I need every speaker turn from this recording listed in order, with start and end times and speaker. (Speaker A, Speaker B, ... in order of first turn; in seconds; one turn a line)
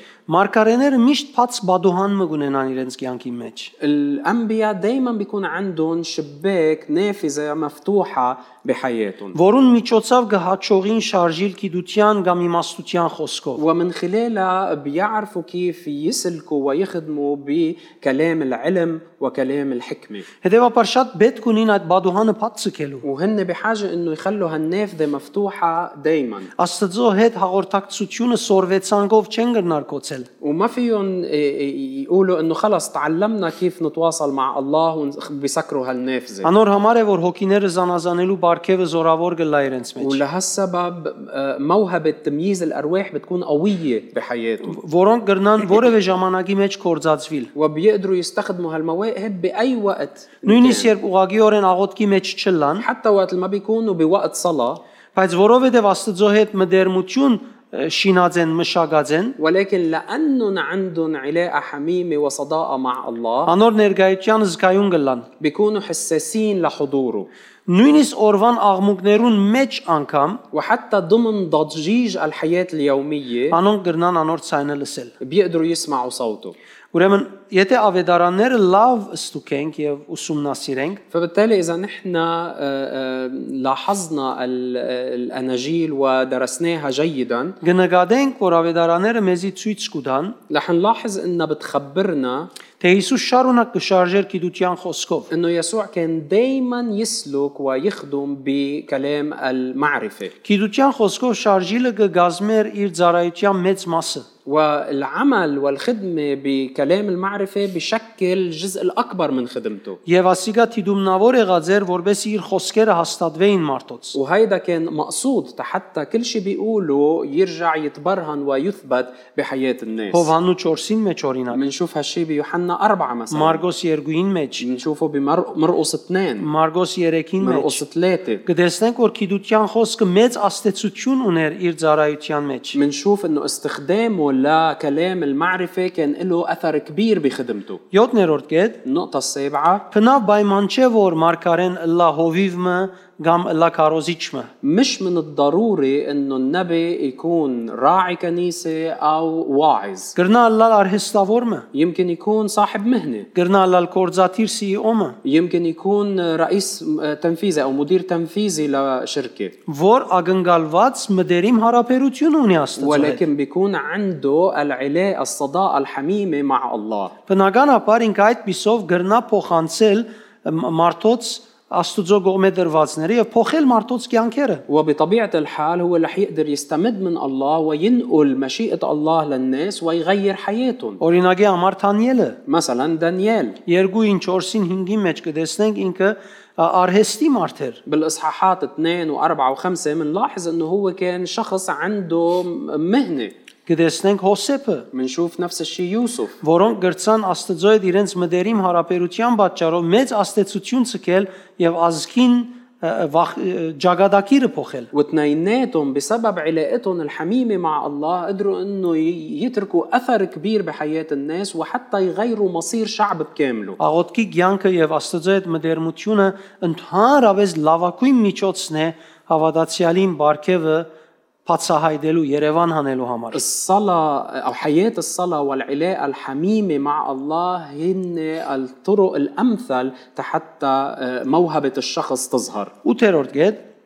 Speaker A: 0.3-3.7
Speaker B: 3.8-9.3
Speaker A: 9.3-13.6
Speaker B: 13.6-20.2
Speaker A: 20.4-23.0
Speaker B: 23.0-26.5
Speaker A: 26.6-30.3
Speaker B: 30.4-36.5
Speaker A: 36.4-40.2
Speaker B: 40.0-44.8
Speaker A: 44.7-47.5
Speaker B: 47.5-50.9
Speaker A: 50.4-52.8
Speaker B: 52.8-54.8
Speaker A: 55.1-59.4
Speaker B: 59.4-63.5
Speaker A: 63.5-65.3
Speaker B: 65.4-67.3
Speaker A: 67.7-70.4
Speaker B: 70.5-73.6
Speaker A: 73.5-75.1
Speaker B: 75.2-76.5
Speaker A: 76.9-81.0
Speaker B: 81.1-87.5
Speaker A: 87.6-90.3
Speaker B: 90.5-92.5
Speaker A: 92.8-95.3
Speaker B: 95.3-100.3
Speaker A: 100.4-104.2
Speaker B: 104.5-110.0
Speaker A: 110.0-114.2
Speaker B: 114.1-120.3
Speaker A: 120.1-121.6
Speaker B: 121.5-123.6
Speaker A: 123.3-124.6
Speaker B: 124.6-126.5
Speaker A: 126.4-127.8
Speaker B: 127.4-128.4
Speaker A: 128.4-132.8
Speaker B: 132.7-137.8
Speaker A: 137.9-138.8
Speaker B: 138.8-139.8
Speaker A: 139.9-144.5
Speaker B: 144.6-150.1
Speaker A: 150.1-151.7
Speaker B: 151.7-153.3
Speaker A: 153.3-155.2
Speaker B: 155.2-159.5
Speaker A: 159.7-163.2
Speaker B: 162.8-167.1
Speaker A: 167.3-174.6
Speaker B: 174.7-181.0
Speaker A: 181.0-182.4
Speaker B: 182.5-183.6
Speaker A: 183.7-187.8
Speaker B: 187.8-193.3
Speaker A: 193.7-194.9
Speaker B: 194.9-196.4
Speaker A: 196.4-204.9
Speaker B: 204.9-213.8
Speaker A: 213.8-220.9
Speaker A: 221.4-223.4
Speaker B: 223.3-232.7
Speaker A: 232.8-233.6